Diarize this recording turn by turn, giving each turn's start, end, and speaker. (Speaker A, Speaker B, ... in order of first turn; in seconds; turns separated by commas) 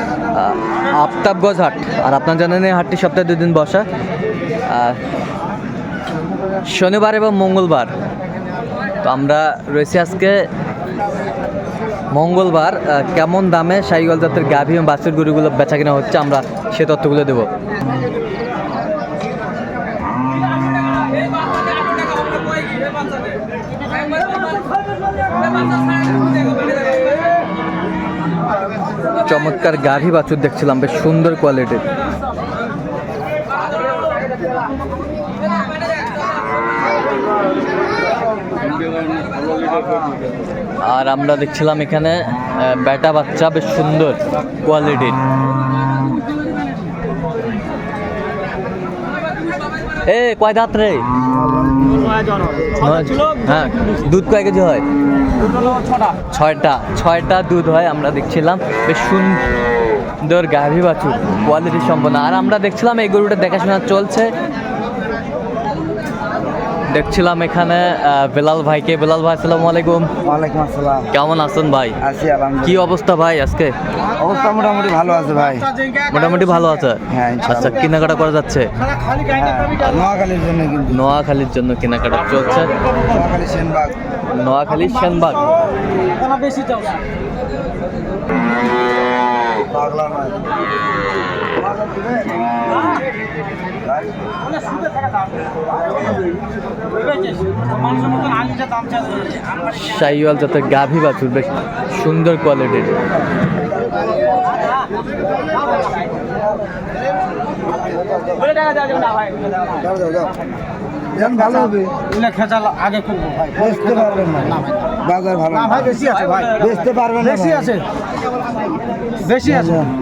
Speaker A: 0.3-3.9, Speaker A: 4.7-5.0, Speaker A: 6.6-7.9, Speaker A: 9.0-10.5, Speaker A: 12.1-17.5, Speaker A: 29.2-31.8, Speaker A: 40.8-45.2, Speaker A: 50.0-51.1, Speaker B: 51.2-52.9, Speaker A: 52.8-54.8, Speaker A: 56.3-59.4, Speaker A: 60.2-64.3, Speaker A: 66.9-70.1, Speaker B: 70.2-71.1, Speaker A: 71.1-72.0, Speaker B: 72.0-72.9, Speaker A: 72.6-73.7, Speaker B: 74.2-75.7, Speaker A: 76.1-78.7, Speaker B: 77.1-77.9, Speaker B: 79.3-81.1, Speaker A: 80.9-82.7, Speaker B: 83.0-84.0, Speaker A: 84.3-85.5, Speaker C: 86.2-86.9, Speaker B: 89.7-90.5, Speaker B: 91.6-92.4, Speaker B: 93.8-94.2, Speaker A: 99.7-102.9, Speaker B: 107.8-108.6, Speaker B: 109.7-110.3, Speaker B: 111.1-112.1, Speaker C: 112.1-113.6, Speaker B: 113.5-117.8, Speaker C: 115.8-116.5, Speaker B: 119.2-119.9